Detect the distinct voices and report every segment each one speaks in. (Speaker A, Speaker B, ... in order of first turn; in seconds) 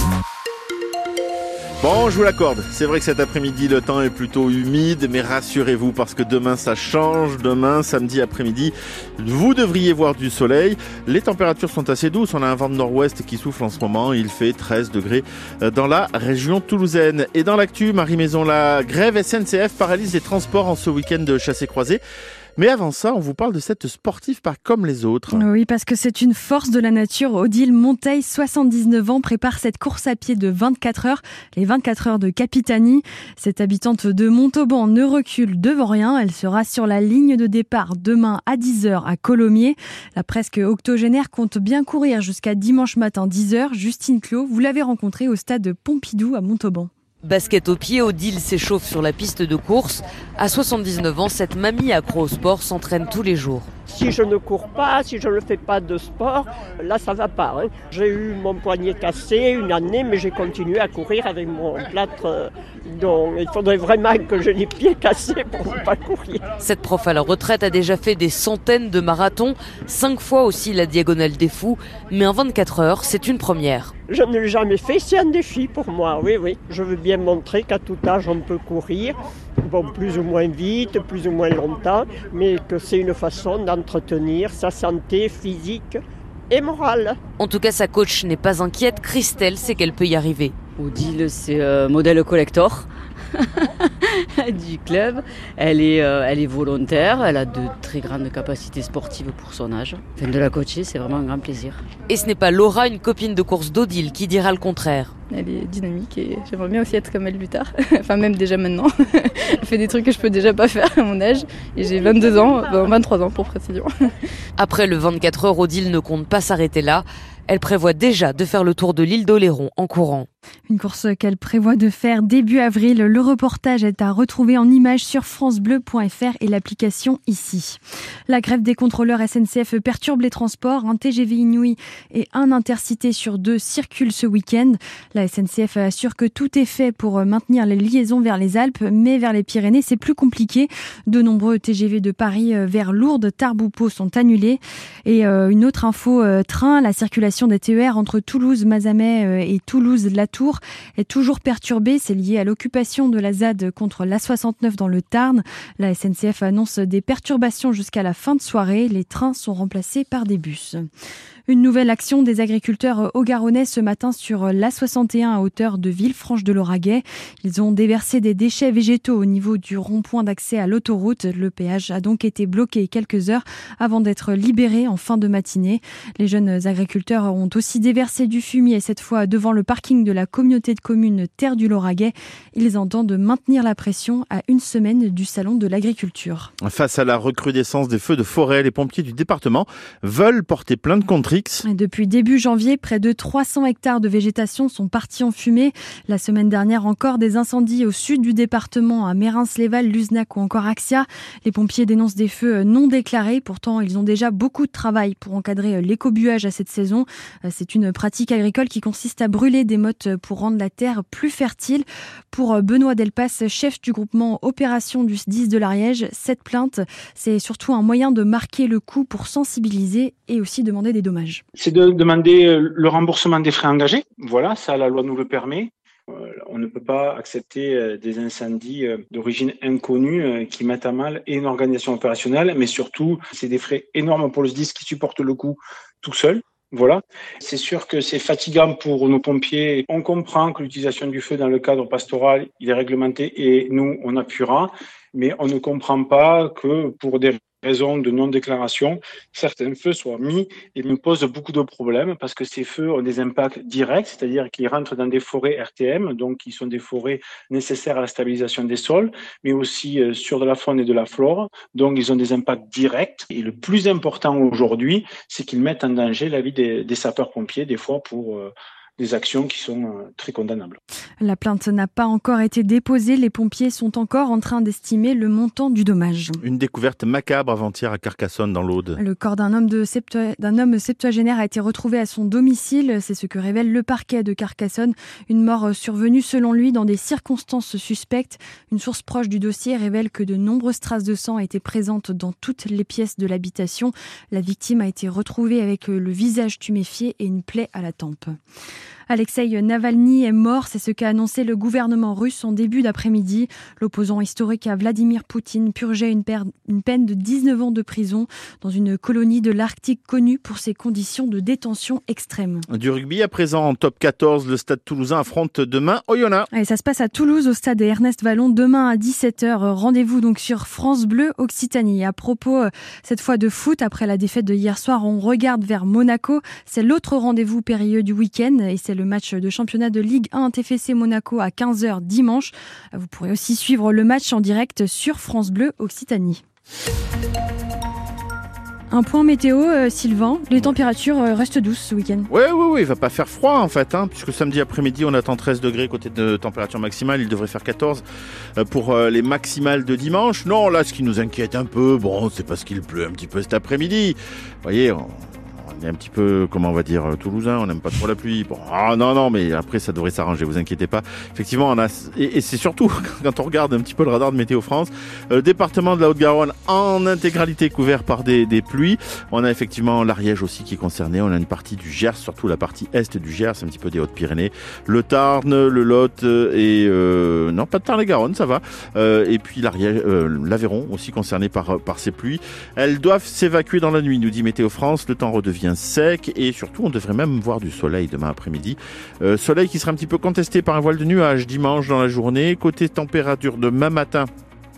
Speaker A: 1.8-22.0, 22.6-25.4, 186.6-191.7, 276.4-279.0, 312.7-316.5, 342.3-348.0, 348.6-394.3
Speaker B: 25.3-46.9, 120.7-160.8, 161.5-186.5, 191.7-221.4, 271.2-276.4, 279.0-298.4, 299.1-312.6, 316.5-336.4, 338.9-342.3
Speaker C: 47.2-53.7, 66.6-73.9, 87.4-90.5, 102.1-105.1, 114.6-120.3
Speaker D: 53.9-66.4, 74.1-87.2
Speaker E: 90.8-101.8
Speaker F: 105.3-113.9
Speaker G: 221.6-270.8